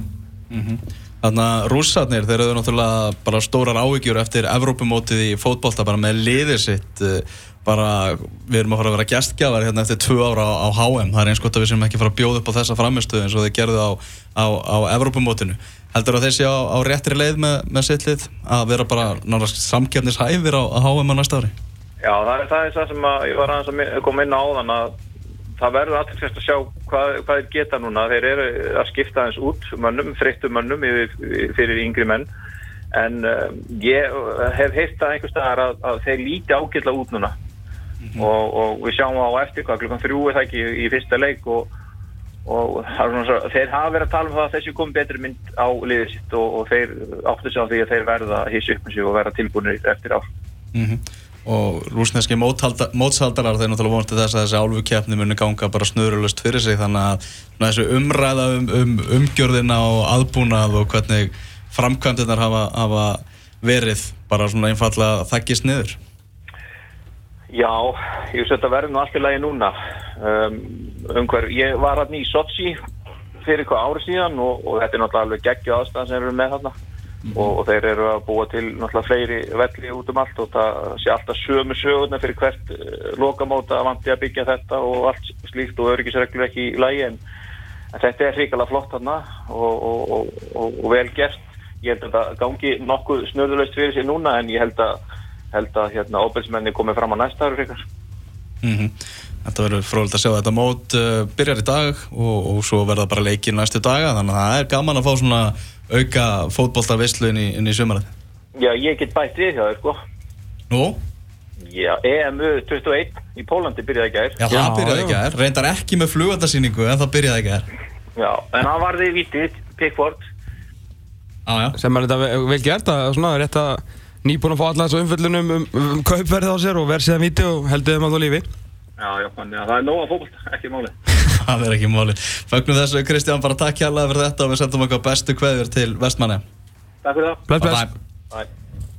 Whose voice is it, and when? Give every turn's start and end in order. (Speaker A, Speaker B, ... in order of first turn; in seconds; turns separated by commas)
Speaker A: 0.5-21.5, Speaker B: 22.0-24.9, Speaker B: 25.6-32.3, Speaker B: 32.9-37.4, Speaker A: 38.0-38.3, Speaker B: 38.2-41.7, Speaker B: 42.5-50.2, Speaker A: 50.7-66.0, Speaker B: 67.5-72.8, Speaker B: 73.4-76.7, Speaker B: 77.3-87.2, Speaker B: 87.9-95.0, Speaker B: 95.5-97.8, Speaker A: 98.6-98.9, Speaker A: 99.5-108.1, Speaker B: 108.6-110.0, Speaker A: 110.7-111.0, Speaker B: 111.6-114.4, Speaker A: 114.4-117.7, Speaker C: 114.5-115.2, Speaker B: 118.2-120.2, Speaker A: 121.5-121.8, Speaker C: 121.8-128.4, Speaker B: 129.0-130.9, Speaker A: 131.2-136.4, Speaker B: 137.0-137.5, Speaker C: 137.5-137.9, Speaker A: 137.6-137.9